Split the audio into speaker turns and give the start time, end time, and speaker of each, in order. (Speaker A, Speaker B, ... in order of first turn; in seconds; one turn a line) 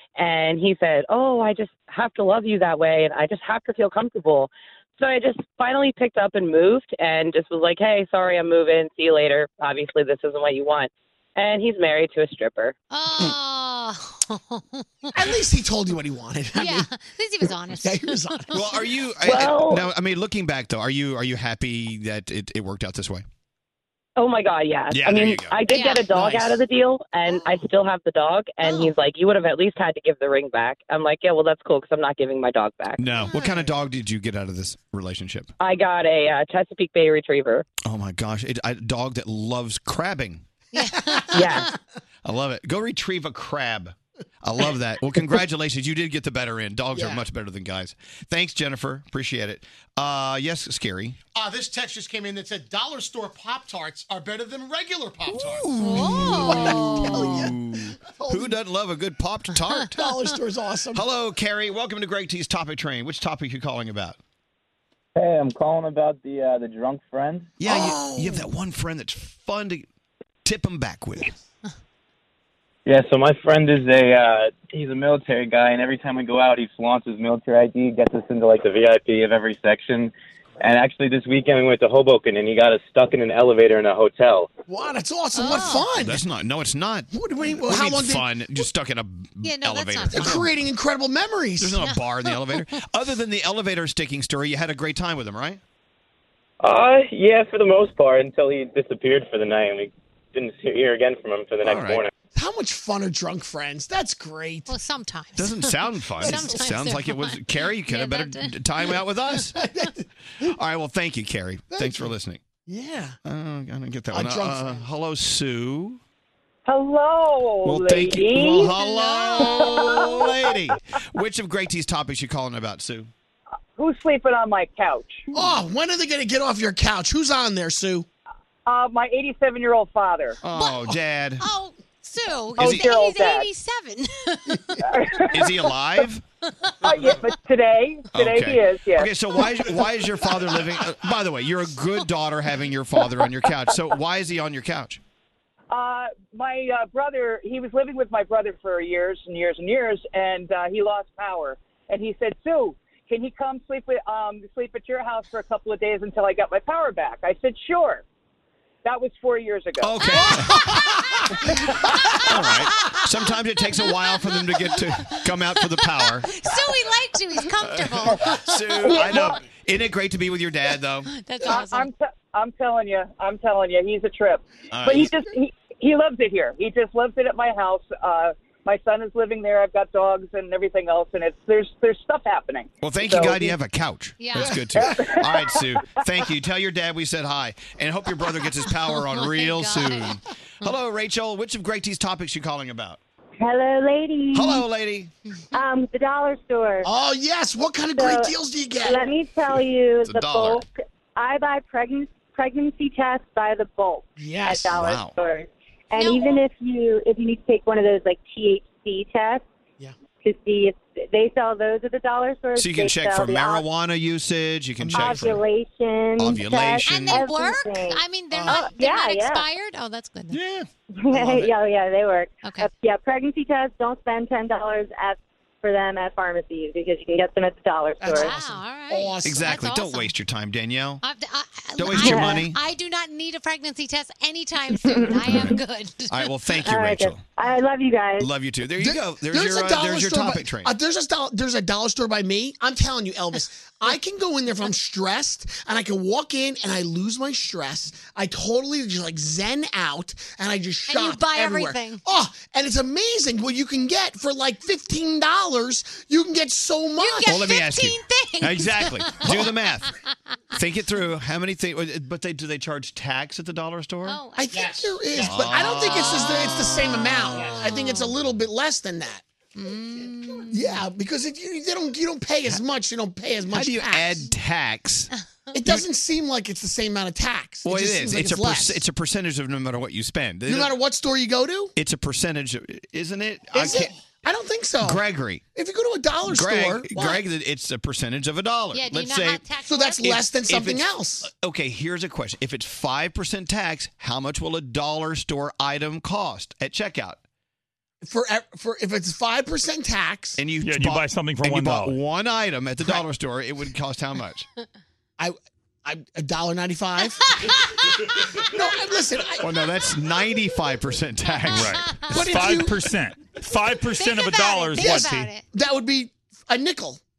Speaker A: 0.2-12.8
Speaker B: 12.9-15.3
Speaker C: 15.1-16.9
Speaker B: 16.6-18.9
Speaker C: 17.7-18.5
Speaker D: 18.5-23.2
Speaker A: 19.2-19.9
Speaker A: 24.2-33.0
Speaker D: 24.9-25.6
Speaker B: 25.7-26.1
Speaker B: 28.6-29.0
Speaker D: 33.0-35.5
Speaker B: 33.2-33.6
Speaker A: 35.6-37.6
Speaker D: 37.8-40.4
Speaker B: 40.7-41.7
Speaker A: 41.3-41.6
Speaker D: 42.2-51.2
Speaker C: 46.9-47.2
Speaker E: 51.4-55.8
Speaker C: 55.6-57.5
Speaker B: 55.8-57.4
Speaker D: 55.9-60.1
Speaker C: 58.3-58.5
Speaker C: 60.0-61.0
Speaker D: 60.9-64.2
Speaker F: 65.2-67.5
Speaker D: 67.6-69.9
Speaker C: 67.6-68.5
Speaker D: 70.5-71.3
Speaker F: 72.9-84.5
Speaker C: 84.7-86.2
Speaker B: 85.3-85.9
Speaker D: 85.9-87.1
Speaker C: 87.1-88.3
Speaker D: 87.6-90.5
Speaker B: 89.4-90.4
Speaker C: 90.1-91.8
Speaker D: 91.6-95.6
Speaker B: 91.8-92.7
Speaker F: 96.6-102.1
Speaker D: 101.6-102.0
Speaker C: 102.3-104.7
Speaker B: 104.7-108.7
Speaker D: 105.4-109.6
Speaker C: 109.5-110.0
Speaker D: 110.4-112.4
Speaker C: 111.7-112.1
Speaker C: 112.7-113.2
Speaker D: 113.2-116.0
Speaker C: 114.1-114.8
Speaker G: 116.7-118.7
Speaker D: 117.6-123.1
Speaker B: 118.8-119.5
Speaker G: 119.4-120.2
Speaker G: 123.8-125.3
Speaker C: 125.3-128.1
Speaker G: 128.7-130.4
Speaker D: 130.4-131.5
Speaker B: 130.5-134.8
Speaker D: 132.6-132.9
Speaker G: 132.6-133.5
Speaker G: 134.9-135.5
Speaker D: 135.3-136.2
Speaker B: 136.7-137.3
Speaker G: 136.8-139.2
Speaker D: 138.1-145.0
Speaker G: 145.7-158.0
Speaker G: 158.8-160.0
Speaker D: 159.8-160.7
Speaker B: 160.0-161.1
Speaker C: 160.4-160.8
Speaker B: 162.0-163.0
Speaker D: 162.2-166.3
Speaker B: 163.8-169.2
Speaker D: 167.6-171.1
Speaker B: 171.1-171.9
Speaker G: 171.4-183.5
Speaker D: 174.7-175.1
Speaker D: 182.8-193.0
Speaker B: 184.2-184.6
Speaker B: 188.7-190.7
Speaker H: 193.4-194.6
Speaker D: 194.3-195.1
Speaker H: 195.5-196.9
Speaker C: 196.8-199.1
Speaker H: 198.0-209.4
Speaker D: 200.0-200.6
Speaker C: 204.2-204.7
Speaker D: 204.7-205.1
Speaker B: 206.0-206.4
Speaker H: 210.2-213.6
Speaker D: 212.6-215.4
Speaker H: 214.9-219.5
Speaker D: 216.2-217.2
Speaker B: 216.8-220.4
Speaker D: 220.3-220.7
Speaker H: 221.0-228.3
Speaker B: 222.4-222.7
Speaker C: 228.0-229.6
Speaker B: 228.1-230.1
Speaker D: 229.2-231.0
Speaker B: 231.0-236.2
Speaker D: 231.8-232.6
Speaker H: 232.0-232.4
Speaker H: 234.9-235.2
Speaker D: 235.2-235.6
Speaker D: 236.1-237.2
Speaker H: 236.7-238.3
Speaker D: 238.2-240.7
Speaker C: 238.8-257.3
Speaker B: 250.9-252.0
Speaker B: 257.0-259.5
Speaker D: 257.2-259.9
Speaker D: 260.5-264.2
Speaker B: 264.0-264.8
Speaker C: 264.4-269.2
Speaker E: 264.5-265.3
Speaker D: 265.1-266.5
Speaker B: 265.5-268.1
Speaker E: 267.3-267.7
Speaker B: 269.6-270.8
Speaker C: 270.5-274.2
Speaker D: 273.5-275.1
Speaker C: 275.5-278.8
Speaker D: 277.6-280.7
Speaker C: 280.5-281.7
Speaker D: 281.8-283.9
Speaker C: 283.5-285.0
Speaker D: 284.8-285.4
Speaker C: 285.6-287.2
Speaker D: 286.3-289.5
Speaker B: 288.7-290.2
Speaker C: 289.6-291.3
Speaker D: 290.1-297.2
Speaker C: 298.0-300.4
Speaker D: 300.4-304.5
Speaker I: 300.6-302.0
Speaker C: 305.2-307.2
Speaker C: 308.5-309.5
Speaker D: 309.4-312.6
Speaker B: 311.3-312.4
Speaker I: 311.5-315.3
Speaker C: 312.1-312.7
Speaker B: 313.9-315.4
Speaker C: 315.5-317.0